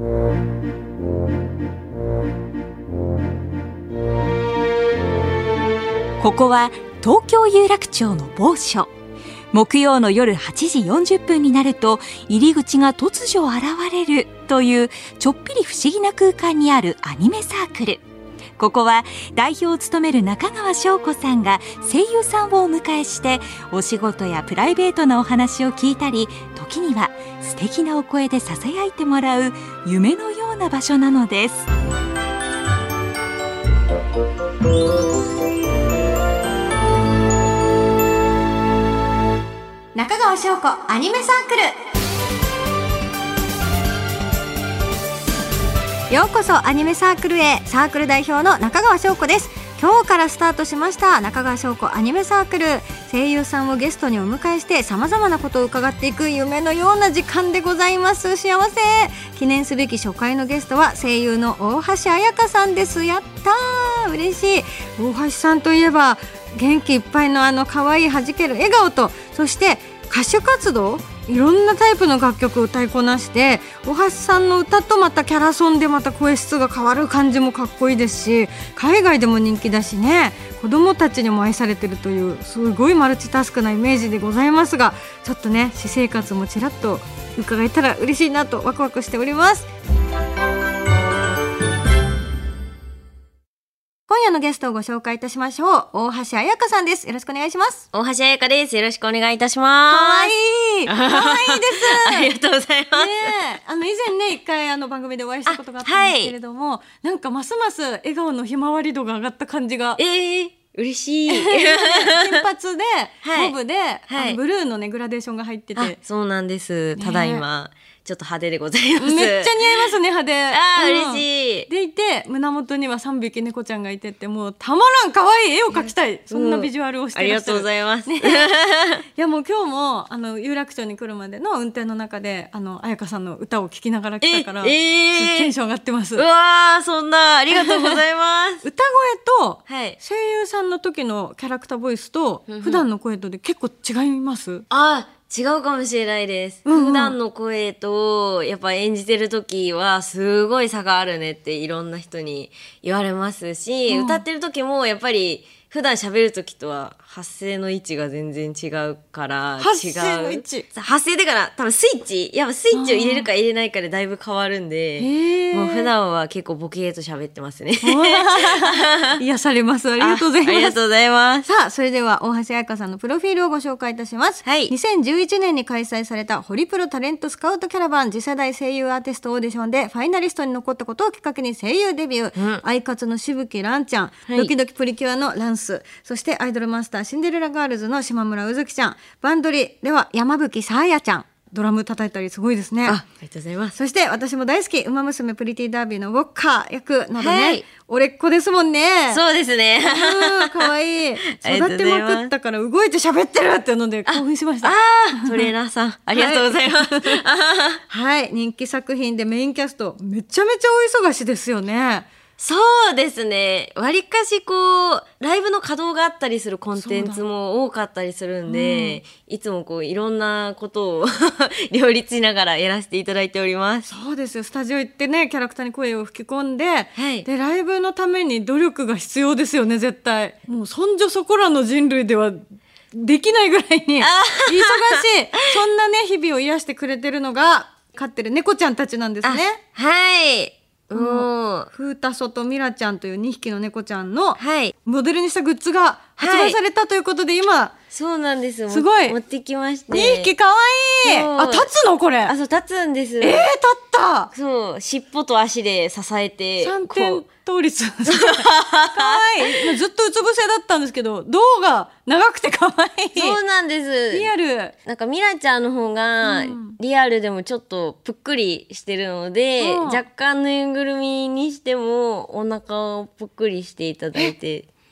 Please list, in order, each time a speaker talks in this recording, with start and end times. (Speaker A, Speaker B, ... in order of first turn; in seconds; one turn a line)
Speaker A: 6.2-8.9
Speaker A: 9.5-18.0
Speaker A: 18.6-31.7
Speaker B: 39.9-41.7
Speaker B: 46.1-89.7
Speaker B: 94.1-97.9
Speaker C: 97.9-100.3
Speaker B: 99.9-102.3
Speaker C: 100.9-103.3
Speaker B: 102.9-110.0
Speaker C: 105.5-106.3
Speaker C: 110.0-112.4
Speaker B: 111.3-116.0
Speaker C: 113.2-113.6
Speaker C: 114.1-114.4
Speaker C: 115.8-119.9
Speaker B: 117.0-117.5
Speaker B: 119.0-128.5
Speaker C: 120.5-121.7
Speaker C: 125.7-129.0
Speaker B: 129.2-136.3
Speaker C: 134.2-135.5
Speaker C: 136.2-138.6
Speaker B: 137.5-138.0
Speaker B: 138.6-144.7
Speaker C: 139.7-140.0
Speaker C: 142.5-142.8
Speaker C: 144.7-169.2
Speaker B: 146.7-147.2
Speaker B: 153.9-154.2
Speaker B: 159.6-160.7
Speaker B: 162.7-163.3
Speaker B: 165.0-165.9
Speaker B: 167.8-170.8
Speaker C: 170.0-171.5
Speaker B: 171.4-193.0
Speaker C: 174.4-174.7
Speaker C: 182.3-182.6
Speaker C: 184.3-184.5
Speaker C: 192.8-193.8
Speaker B: 193.8-199.2
Speaker C: 197.2-197.6
Speaker C: 199.1-202.3
Speaker B: 199.8-205.5
Speaker C: 204.1-207.8
Speaker B: 206.1-207.2
Speaker B: 207.9-212.1
Speaker C: 212.4-223.9
Speaker B: 216.8-217.2
Speaker B: 218.5-219.0
Speaker B: 223.9-239.6
Speaker C: 227.0-227.3
Speaker C: 234.0-235.0
Speaker C: 239.2-241.7
Speaker B: 240.9-247.7
Speaker C: 244.4-244.7
Speaker C: 246.2-246.6
Speaker C: 247.9-250.3
Speaker B: 248.7-249.2
Speaker B: 249.9-252.3
Speaker C: 251.1-251.7
Speaker C: 252.3-253.5
Speaker B: 253.2-254.3
Speaker C: 254.3-257.2
Speaker B: 256.6-263.4
Speaker C: 258.1-259.5
Speaker C: 263.2-264.3
Speaker B: 264.1-264.8
Speaker C: 264.9-274.7
Speaker B: 266.2-266.8
Speaker B: 269.6-270.0